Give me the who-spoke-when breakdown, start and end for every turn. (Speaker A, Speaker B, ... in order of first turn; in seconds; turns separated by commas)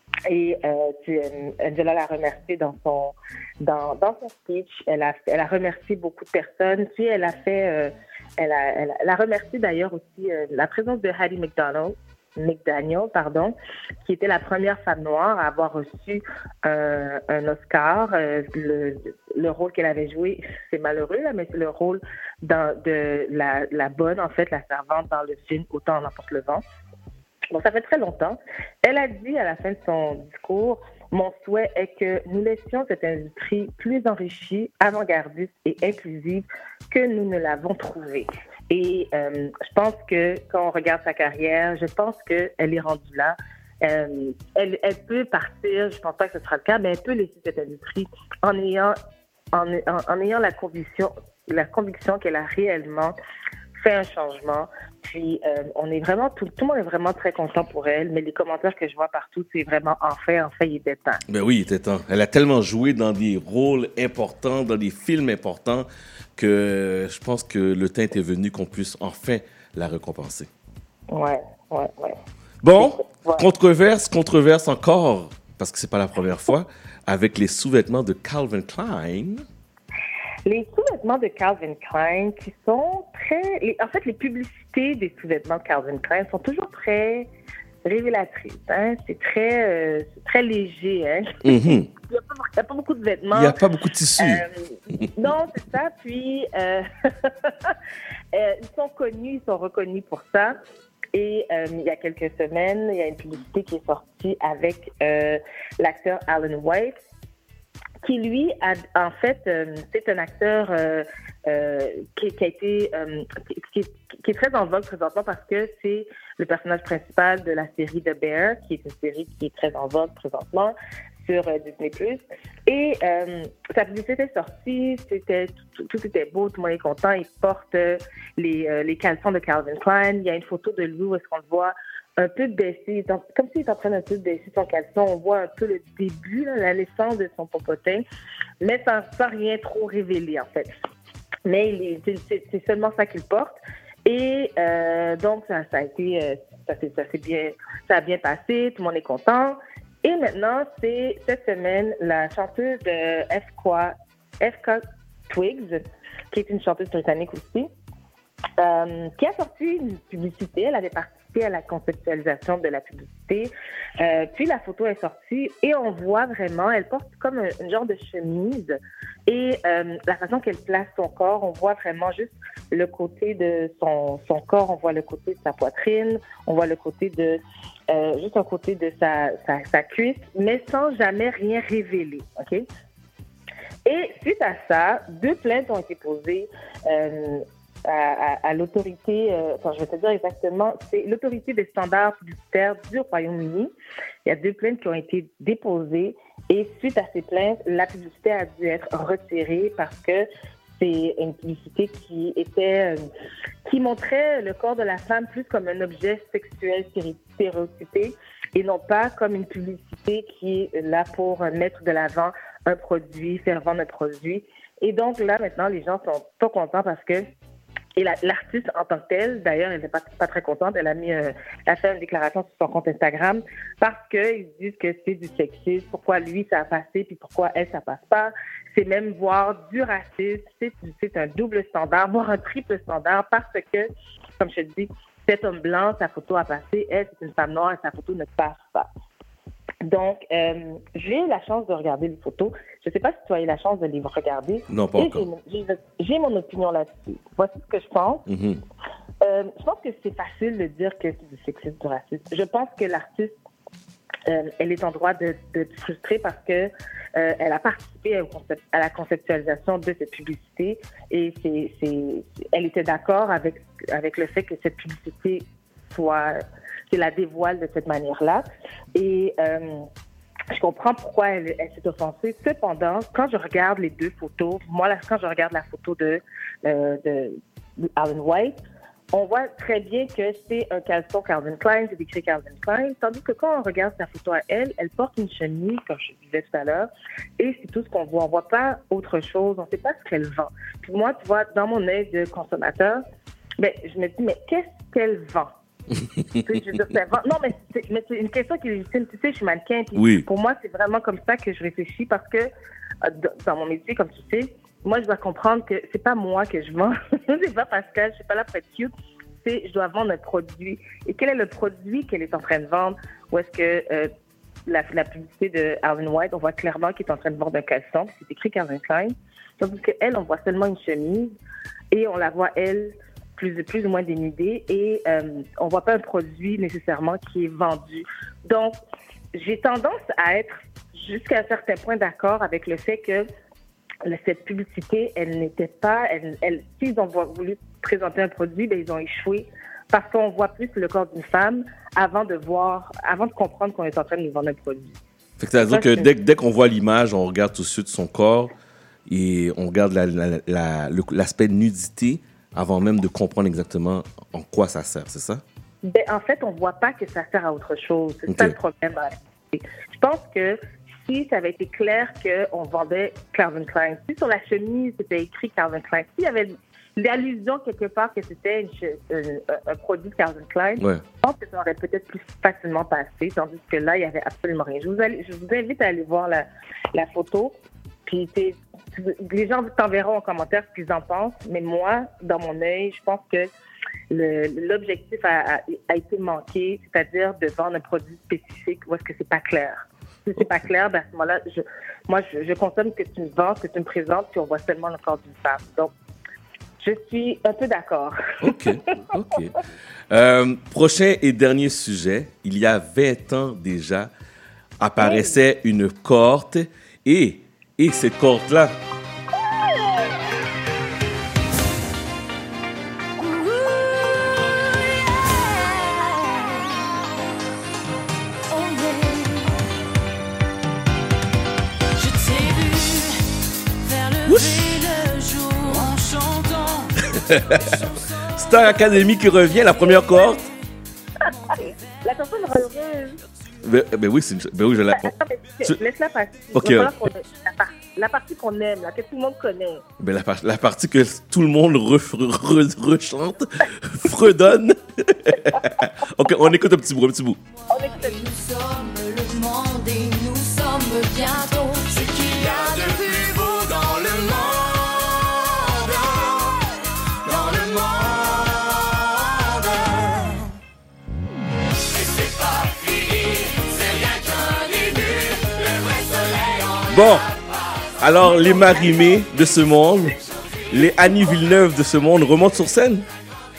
Speaker A: 0.3-26.6, Speaker A: 27.5-49.0, Speaker A: 49.5-53.1, Speaker A: 53.8-61.2, Speaker B: 61.3-70.5, Speaker A: 71.1-72.2, Speaker B: 72.6-79.4, Speaker A: 72.8-73.4, Speaker A: 80.5-87.3, Speaker A: 87.8-91.5, Speaker B: 91.4-91.9, Speaker A: 92.0-93.6, Speaker B: 93.3-94.4, Speaker A: 94.2-94.6, Speaker A: 95.2-97.7, Speaker A: 98.3-100.5, Speaker A: 101.1-107.0, Speaker A: 108.0-138.0, Speaker A: 138.6-140.7, Speaker A: 141.4-157.7, Speaker A: 158.6-182.6, Speaker A: 183.8-193.7, Speaker A: 194.2-200.2, Speaker A: 200.8-203.0, Speaker A: 203.7-217.2, Speaker A: 218.0-238.9, Speaker A: 239.8-248.2, Speaker B: 244.7-245.3, Speaker B: 248.3-248.6, Speaker A: 249.2-253.3, Speaker A: 254.3-266.4, Speaker A: 266.9-269.9, Speaker A: 270.5-278.6, Speaker A: 279.1-293.0, Speaker A: 293.6-295.5, Speaker A: 296.4-302.5, Speaker B: 299.9-300.3, Speaker A: 303.0-308.9, Speaker A: 309.4-314.1, Speaker A: 314.7-321.3, Speaker A: 321.9-328.8, Speaker A: 329.3-333.3, Speaker A: 334.1-345.0, Speaker B: 345.4-348.5, Speaker A: 345.6-346.1, Speaker B: 349.1-355.4, Speaker A: 355.8-377.5, Speaker B: 358.3-358.6, Speaker A: 378.1-383.5, Speaker A: 384.1-395.9, Speaker A: 396.8-398.7, Speaker B: 398.4-399.5, Speaker B: 400.1-404.1, Speaker B: 404.8-408.7, Speaker A: 405.0-405.4, Speaker C: 413.2-414.7, Speaker C: 415.6-416.8, Speaker C: 418.5-419.5, Speaker C: 422.0-423.1, Speaker B: 424.2-424.6, Speaker C: 424.5-426.6, Speaker B: 427.3-427.6, Speaker B: 428.3-430.4, Speaker A: 431.5-433.2, Speaker B: 433.6-435.1, Speaker A: 434.9-439.8, Speaker B: 436.6-436.9, Speaker B: 440.0-447.4, Speaker A: 447.7-448.2, Speaker C: 447.9-453.6, Speaker B: 466.9-467.2, Speaker B: 468.0-470.1, Speaker B: 470.7-473.1